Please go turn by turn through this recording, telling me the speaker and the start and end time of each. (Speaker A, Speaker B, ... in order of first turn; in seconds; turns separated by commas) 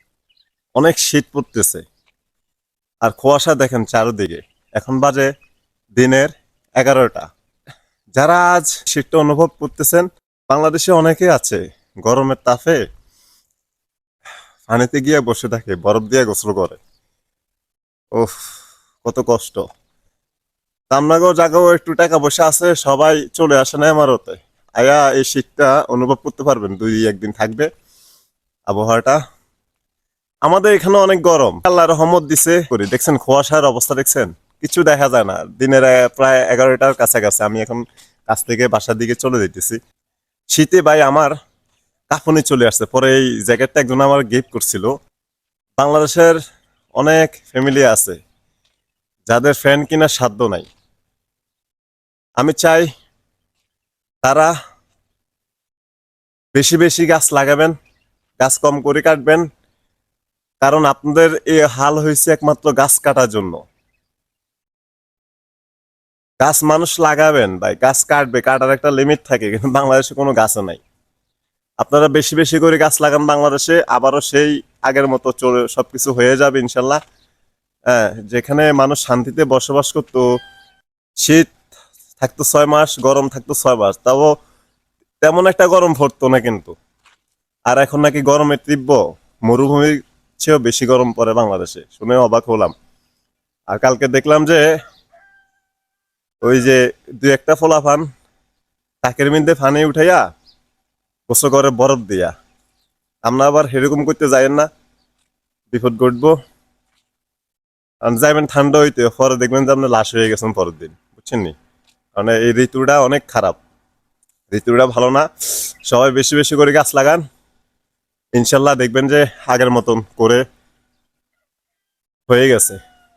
Speaker A: 0.8-1.8, Speaker A: 3.0-5.3, Speaker A: 6.0-7.3, Speaker A: 8.2-12.8, Speaker A: 14.7-16.8, Speaker A: 19.0-19.6, Speaker A: 20.9-27.7, Speaker A: 28.7-29.2, Speaker A: 30.5-39.8, Speaker A: 40.5-41.3, Speaker A: 42.1-44.9, Speaker A: 45.8-46.4, Speaker A: 47.0-48.2, Speaker A: 49.3-50.7, Speaker A: 52.4-52.9, Speaker A: 54.2-54.5, Speaker A: 56.5-57.7, Speaker A: 58.4-59.5, Speaker A: 60.6-63.6, Speaker A: 66.4-70.8, Speaker A: 71.8-77.0, Speaker A: 77.9-80.2, Speaker A: 81.2-81.5, Speaker A: 82.2-84.3, Speaker A: 85.2-86.7, Speaker A: 87.7-92.7, Speaker A: 93.7-94.6, Speaker A: 96.4-98.1, Speaker A: 99.0-100.2, Speaker A: 101.3-102.3, Speaker A: 103.2-104.7, Speaker A: 105.7-106.3, Speaker A: 108.0-111.5, Speaker A: 112.2-113.6, Speaker A: 114.5-115.2, Speaker A: 115.9-117.2, Speaker A: 118.4-120.4, Speaker A: 122.3-122.8